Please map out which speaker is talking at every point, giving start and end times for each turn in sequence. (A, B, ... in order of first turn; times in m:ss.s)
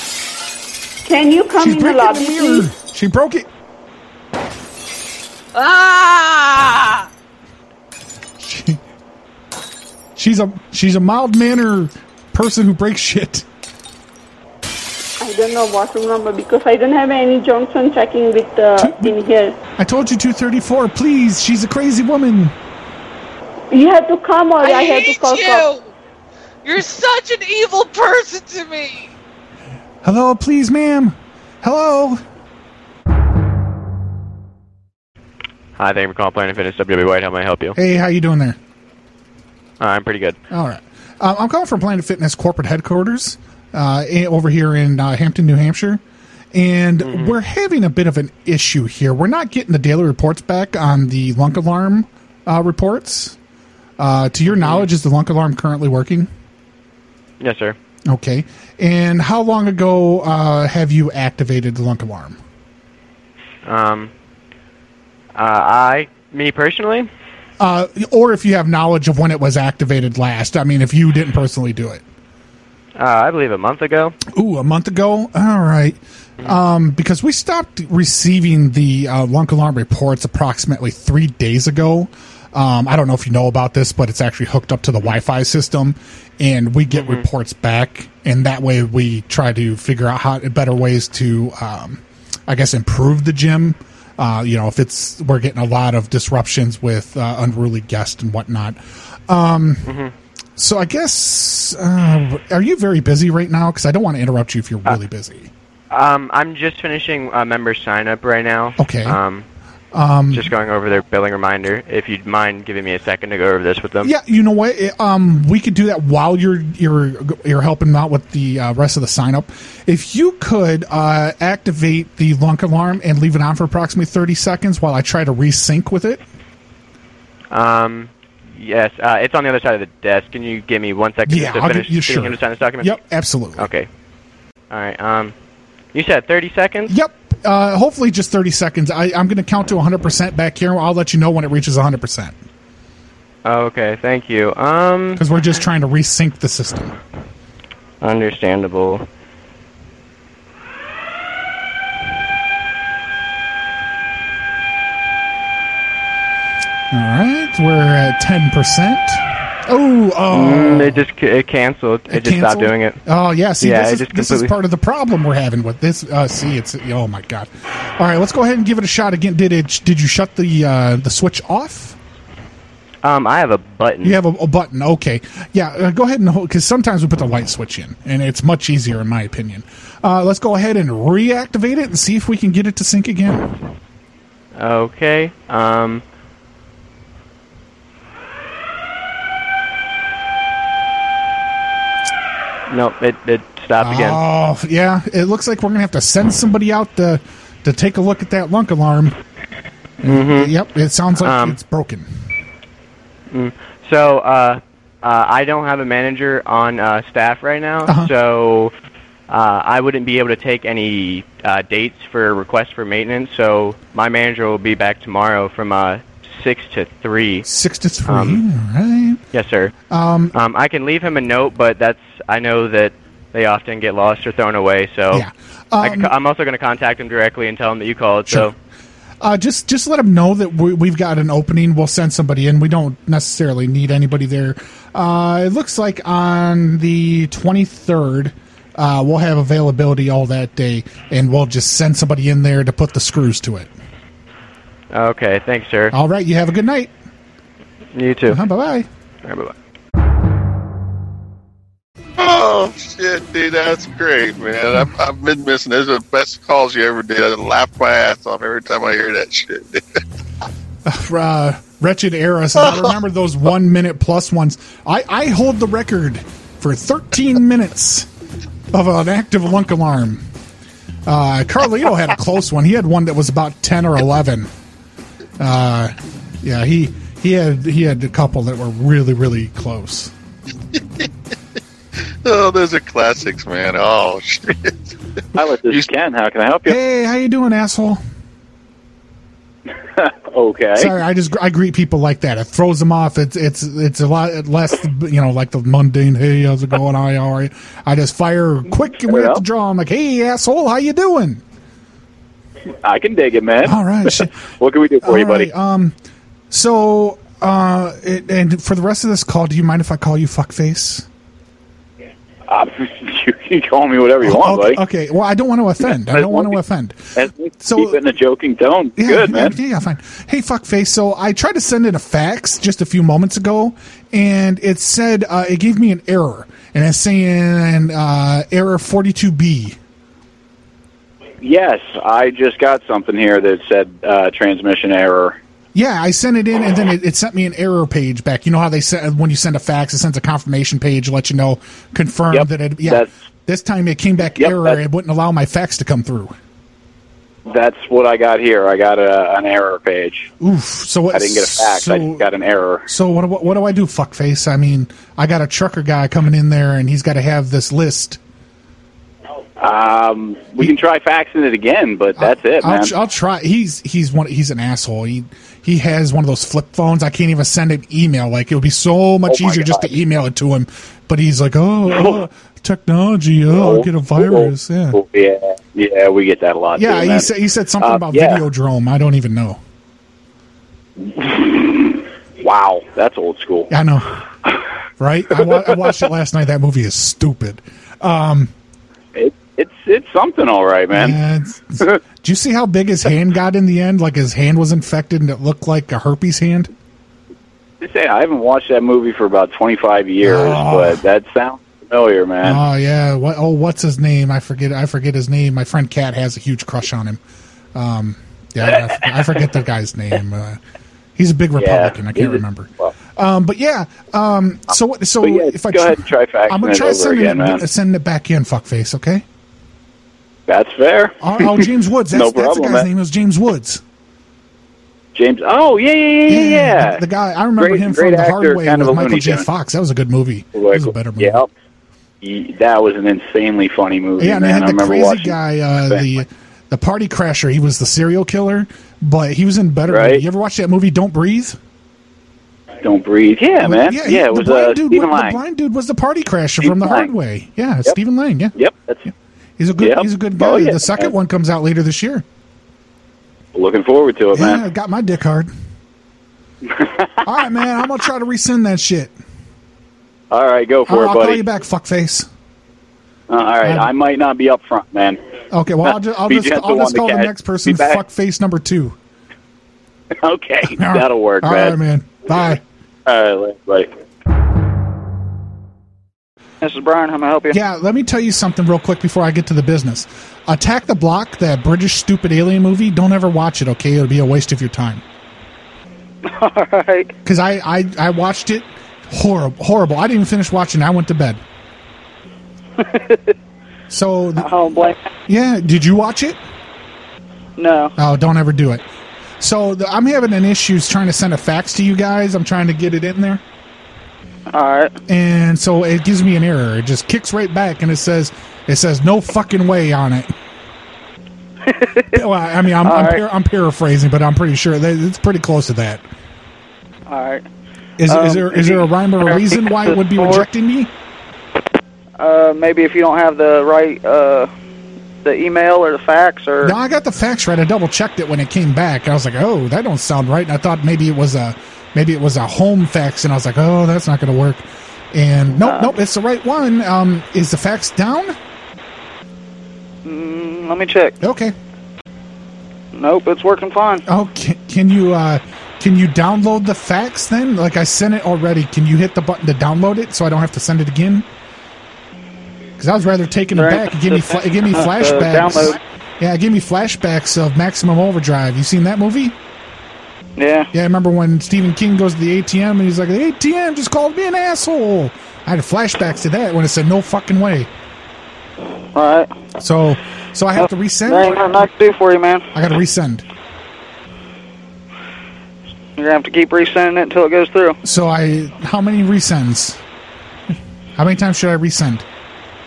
0:01.0-0:02.6 A
0:01.6-0:03.5 B
0:05.5-0:07.1 C
0:08.4-0:08.8 B
0:10.2-0:13.5 B
0:15.2-0:19.6 A
0:18.8-0:19.2 B
0:19.8-0:22.5 B
0:23.7-0:25.7 A
0:24.6-0:25.9 C
0:26.6-0:29.1 C
0:30.0-0:32.2 B
0:35.8-0:37.8 D
0:37.8-0:38.6 B
0:39.8-0:40.4 D
0:40.5-0:46.0 B
0:46.5-0:53.4 B
0:47.0-0:47.4 D
0:54.0-0:56.3 B
0:54.5-0:54.9 D
0:57.4-0:57.8 D
0:58.1-1:02.4 B
1:03.6-1:04.1 D
1:05.4-1:07.1 D
1:07.6-1:12.0 B
1:13.0-1:14.2 D
1:14.3-1:39.9 B
1:26.9-1:27.2 D
1:39.8-1:40.1 D
1:40.6-1:45.5 B
1:45.9-1:49.4 D
1:48.8-1:49.2 B
1:49.9-1:50.5 B
1:50.3-1:54.1 D
1:54.0-2:06.2 B
2:07.5-2:13.0 D
2:11.3-2:13.7 B
2:13.6-2:13.9 D
2:14.7-2:15.3 D
2:15.9-2:16.9 D
2:16.9-2:22.4 B
2:23.4-2:25.2 D
2:25.2-2:26.9 B
2:28.0-2:29.0 D
2:36.9-2:41.0 B
2:40.3-2:43.0 D
2:42.1-2:52.0 B
2:43.6-2:44.5 D
2:53.0-2:54.2 D
2:54.0-3:03.5 B
3:04.6-3:06.0 D
3:12.7-3:14.2 D
3:13.8-3:19.2 B
3:20.0-3:20.5 D
3:20.0-3:22.1 B
3:21.2-3:21.6 D
3:23.3-3:28.7 D
3:27.9-3:28.1 B
3:29.3-3:37.5 D
3:37.5-3:39.2 B
3:38.1-3:38.4 D
3:39.3-3:39.7 D
3:39.9-3:40.4 B
3:40.3-3:45.3 D
3:45.1-3:46.1 B
3:45.8-3:48.5 D
3:49.2-4:03.7 B
4:04.9-4:05.9 D
4:05.9-4:06.9 B
4:07.9-4:08.4 D
4:08.3-4:08.9 B
4:09.2-4:09.5 D
4:12.2-4:19.8 E
4:20.9-4:28.1 B
4:28.7-4:30.3 B
4:31.0-4:34.5 B
4:35.4-4:40.1 B
4:42.2-4:44.7 E
4:45.4-4:46.8 F
4:45.7-4:45.9 E
4:46.7-4:48.0 B
4:50.3-4:50.9 F
4:50.8-5:01.4 B
4:59.1-4:59.4 F
5:02.8-5:03.7 F
5:03.6-5:04.4 B
5:04.6-5:05.5 F
5:05.0-5:05.9 B
5:06.5-5:11.0 B
5:12.5-5:14.8 F
5:14.2-5:18.0 B
5:16.1-5:16.5 F
5:17.2-5:19.5 F
5:19.0-5:29.8 B
5:31.4-5:35.4 F
5:35.7-5:46.3 B
5:42.3-5:43.1 F
5:44.4-5:44.8 F
5:47.5-5:50.3 F
5:50.4-5:52.3 B
5:51.1-5:52.8 F
5:52.9-5:58.2 B
5:59.6-6:02.9 F
6:02.2-6:15.0 B
6:09.3-6:09.9 F
6:13.5-6:17.2 F
6:16.8-6:19.6 B
6:17.8-6:18.4 F
6:21.4-6:23.7 F
6:23.7-6:24.1 B
6:25.0-6:28.5 B
6:29.2-6:31.2 F
6:30.9-6:36.7 B
6:37.8-6:42.6 F
6:40.2-6:41.0 B
6:42.4-6:47.2 B
6:47.8-6:50.6 B
6:51.2-6:59.2 B
6:51.6-6:52.9 F
6:55.2-6:57.6 F
7:00.5-7:01.1 F
7:01.2-7:03.8 B
7:02.1-7:02.8 F
7:05.2-7:07.0 F
7:06.3-7:11.4 B
7:07.6-7:09.4 F
7:10.6-7:11.4 F
7:12.2-7:15.3 F
7:14.2-7:21.6 B
7:19.9-7:20.2 F
7:22.8-7:25.4 F
7:23.6-7:28.6 B
7:26.6-7:27.1 F
7:28.6-7:29.0 F
7:29.6-7:32.2 B
7:29.8-7:31.1 F
7:33.6-7:34.6 F
7:34.3-7:35.5 B
7:37.2-7:39.1 B
7:40.3-7:41.4 F
7:40.9-7:42.3 B
7:43.3-7:45.2 F
7:43.6-7:43.9 B
7:45.5-7:49.0 B
7:46.3-7:48.0 F
7:50.2-7:51.7 F
7:50.7-7:52.6 B
7:53.1-7:53.9 F
7:56.6-7:57.6 G
7:57.5-8:05.0 B
8:06.3-8:07.1 G
8:07.2-8:11.4 B
8:12.8-8:13.3 G
8:13.9-8:14.5 B
8:14.4-8:15.0 G
8:15.3-8:16.4 B
8:17.6-8:17.9 G
8:18.0-8:18.8 B
8:19.4-8:23.4 B
8:24.5-8:24.9 G
8:25.1-8:30.3 B
8:31.7-8:32.2 G
8:32.1-8:36.0 B
8:32.8-8:33.2 G
8:37.1-8:37.4 G
8:38.0-8:40.9 B
8:38.1-8:40.5 G
8:42.2-8:44.5 G
8:45.2-8:46.8 G
8:46.6-8:58.4 B
8:55.6-8:56.0 G
9:00.0-9:01.2 G
9:01.2-9:01.5 B
9:03.0-9:04.0 G
9:04.1-9:11.3 B
9:12.8-9:19.4 B
9:13.5-9:15.8 G
9:20.4-9:20.7 G
9:20.7-9:27.7 B
9:29.0-9:29.3 G
9:29.6-9:31.5 B
9:30.6-9:32.4 G
9:32.5-9:33.2 B
9:36.0-9:37.8 G
9:37.8-9:39.8 B
9:41.0-9:42.0 B